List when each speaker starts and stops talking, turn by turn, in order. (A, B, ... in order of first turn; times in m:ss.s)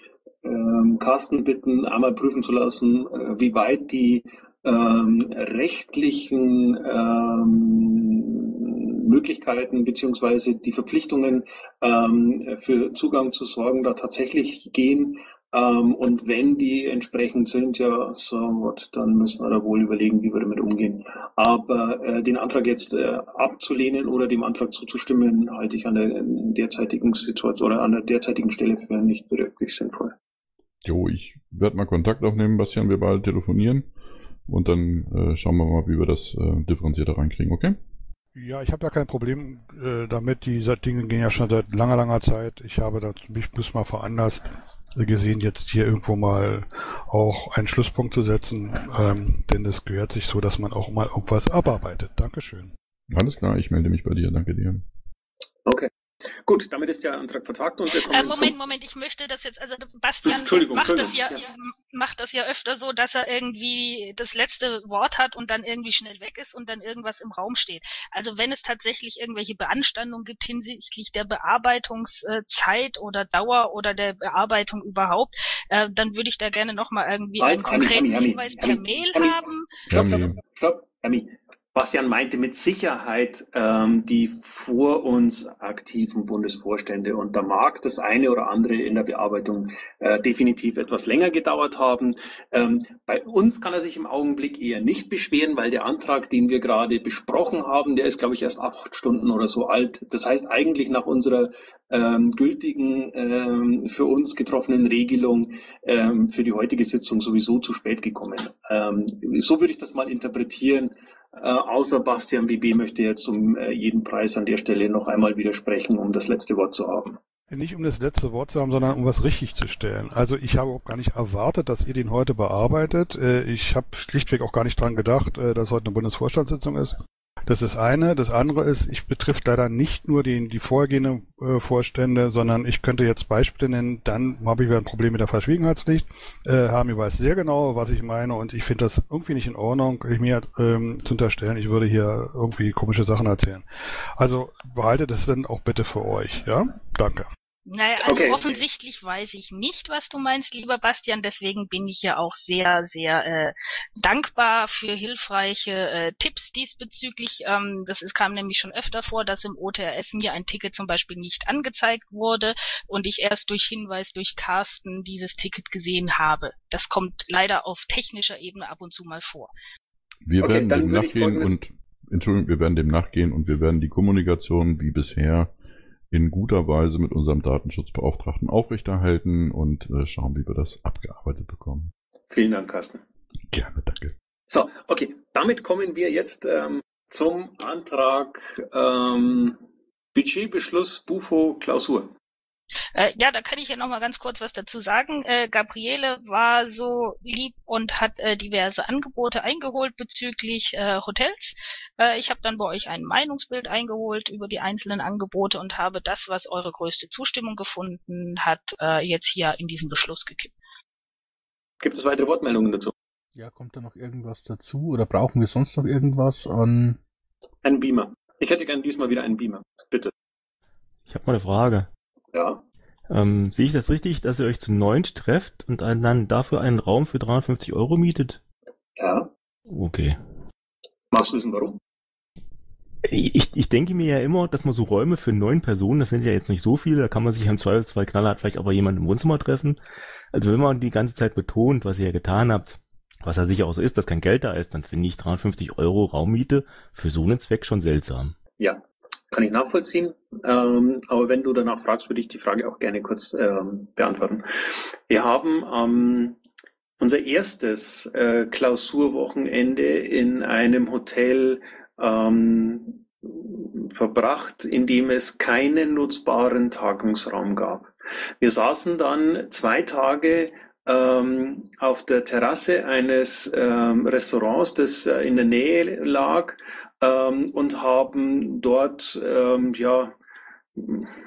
0:00.4-0:30.1 A
0:30.8-0:33.9 B
0:34.5-0:37.8 B
0:38.4-0:52.7 C
0:53.1-0:54.8 B
0:56.4-0:58.5 A
0:57.9-1:19.7 D
1:00.2-1:01.4 A
1:17.4-1:57.2 A
1:19.9-1:20.4 B
1:57.5-2:23.6 C
2:24.2-2:27.3 C
2:27.7-2:49.5 D
2:28.0-2:28.5 A
2:50.3-2:55.5 B
2:50.4-2:51.6 A
2:56.1-3:01.9 B
3:02.3-3:03.0 A
3:03.5-3:04.1 B
3:04.5-3:09.6 A
3:10.1-3:12.1 A
3:12.9-3:30.5 D
3:31.8-3:32.9 A
3:33.3-3:37.0 E
3:37.6-3:40.1 A
3:41.1-3:41.9 F
3:42.3-3:42.6 A
3:43.1-3:48.4 F
3:49.0-3:49.3 A
3:49.7-3:50.2 F
3:51.1-3:51.8 A
3:53.0-3:59.8 F
4:00.3-4:08.4 F
4:08.6-4:16.4 A
4:17.0-4:40.1 A
4:40.8-4:41.1 A